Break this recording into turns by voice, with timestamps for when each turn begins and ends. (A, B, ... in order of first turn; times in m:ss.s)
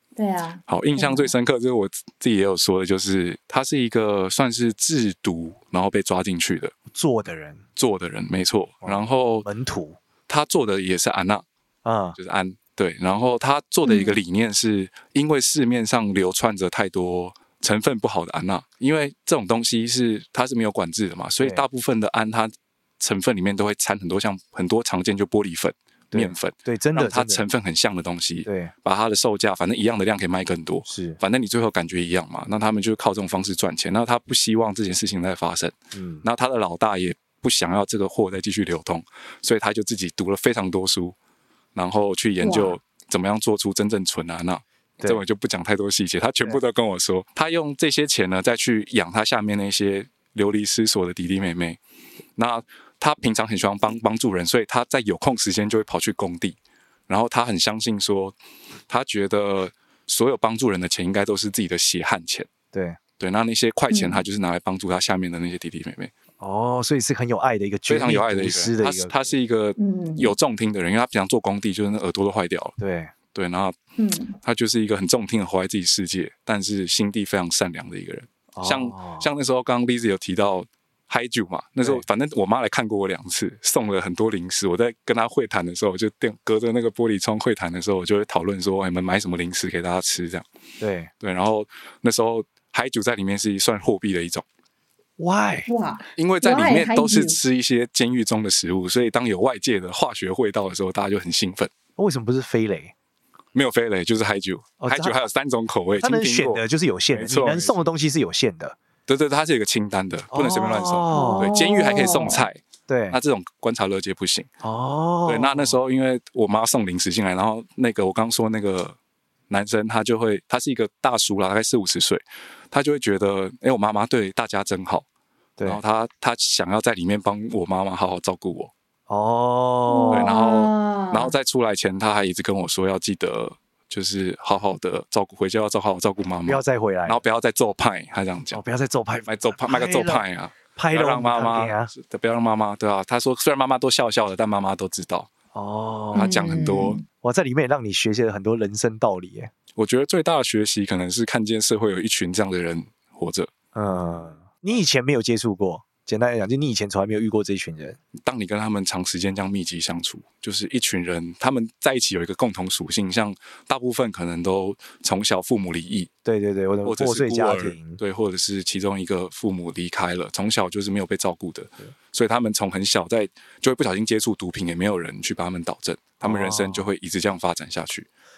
0:00.2-0:01.3 A
0:00.7-0:06.7 B
0:06.9-0:07.6 C
0:07.8-0:09.5 B
0:08.8-0:10.0 C
0:10.3-0:11.4 B
0:11.8-0:12.2 C
0:12.2-0:41.1 B
0:13.8-0:14.2 A
0:21.4-0:21.6 C
0:26.1-0:27.4 C
0:28.4-0:28.7 C
0:30.9-0:31.2 C
0:35.9-0:36.2 C
0:41.7-0:51.8 B
0:42.4-0:42.8 A
0:52.4-0:56.6 B
0:57.1-0:58.3 B
0:58.9-1:02.5 B
1:02.7-1:03.0 C
1:03.2-1:06.1 B
1:03.9-1:04.2 A
1:06.4-1:09.3 C
1:07.9-1:12.7 B
1:09.8-1:10.3 A
1:12.8-1:13.1 C
1:13.3-1:13.7 B
1:14.0-1:14.4 A
1:14.4-1:30.4 B
1:18.5-1:19.3 C
1:30.8-1:31.1 C
1:31.2-1:34.4 B
1:35.2-1:35.7 C
1:35.7-1:37.4 A
1:36.2-1:41.7 B
1:42.0-1:42.9 C
1:43.5-1:47.8 B
1:44.8-1:45.3 C
1:46.0-1:48.8 C
1:49.1-1:52.6 B
1:50.3-1:51.5 C
1:51.1-1:52.5 A
1:52.9-1:53.2 C
1:53.1-1:54.5 B
1:54.6-1:55.8 C
1:55.2-1:59.0 B
1:59.5-2:05.0 B
2:05.6-2:08.7 B
2:09.1-2:10.4 C
2:09.9-2:11.3 A
2:10.1-2:18.6 B
2:16.4-2:17.2 C
2:18.5-2:20.2 C
2:19.3-2:25.3 B
2:20.7-2:21.9 C
2:25.5-2:26.5 C
2:26.1-2:27.0 B
2:26.1-2:27.0 A
2:27.2-2:29.5 C
2:29.8-2:33.5 B
2:33.7-2:38.0 C
2:38.1-2:46.1 B
2:46.2-2:48.0 C
2:46.8-2:58.1 B
2:56.2-2:56.9 C